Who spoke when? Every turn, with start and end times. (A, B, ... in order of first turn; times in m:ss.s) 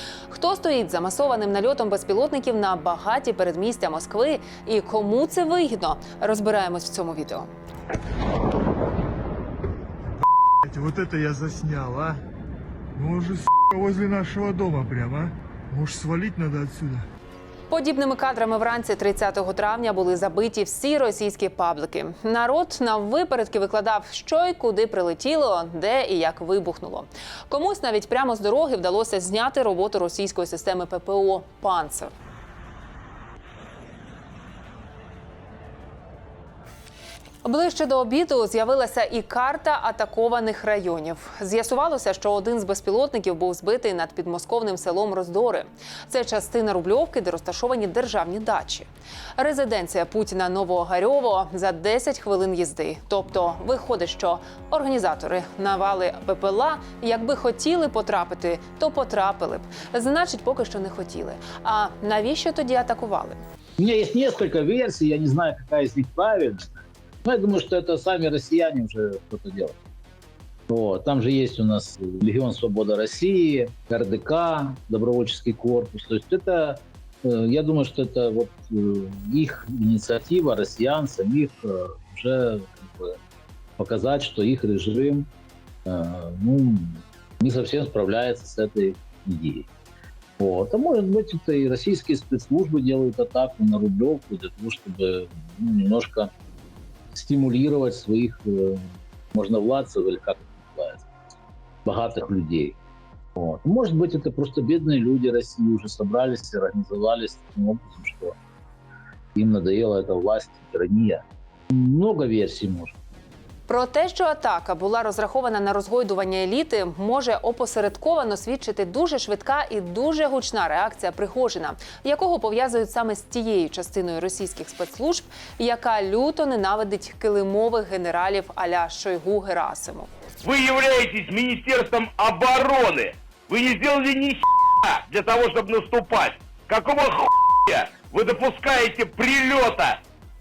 0:00.3-0:07.5 A
0:10.6-0:12.2 B
0:13.0-0:17.1 B
0:17.7-0:32.1 A
0:37.4-1:03.4 A
1:03.8-1:09.8 C
1:10.7-1:23.2 C
1:23.8-1:25.3 C
1:25.9-1:29.7 C
1:30.4-1:36.3 C
1:37.1-1:41.1 C
1:41.8-1:42.8 C
1:43.4-1:48.4 C
1:49.4-1:53.0 C
1:53.7-2:10.1 A
2:10.4-2:20.0 D